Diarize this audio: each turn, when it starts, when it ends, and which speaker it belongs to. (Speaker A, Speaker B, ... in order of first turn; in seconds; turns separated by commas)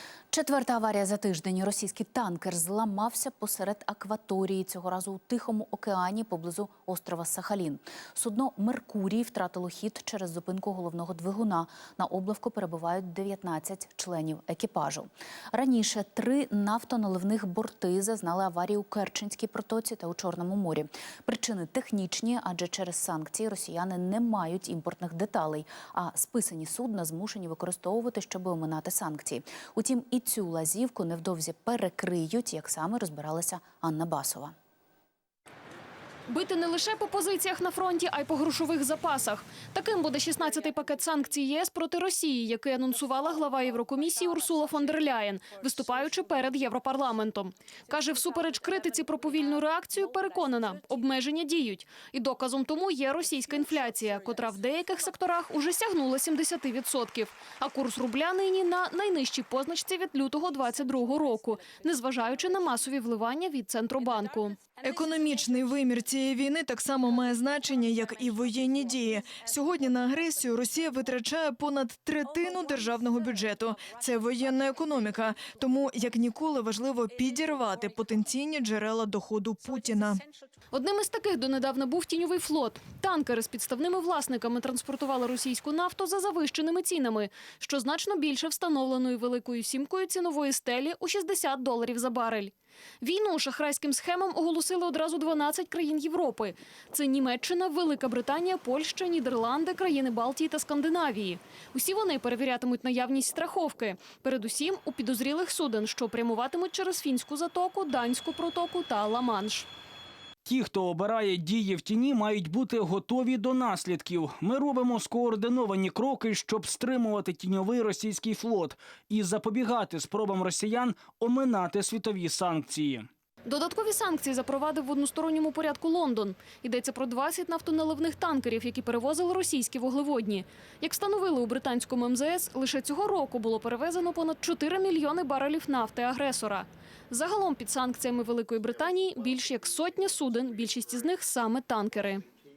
Speaker A: 0.3-34.5, Speaker B: 36.3-65.1, Speaker C: 64.8-80.2, Speaker B: 80.7-109.7, Speaker D: 110.5-123.1, Speaker B: 123.5-142.2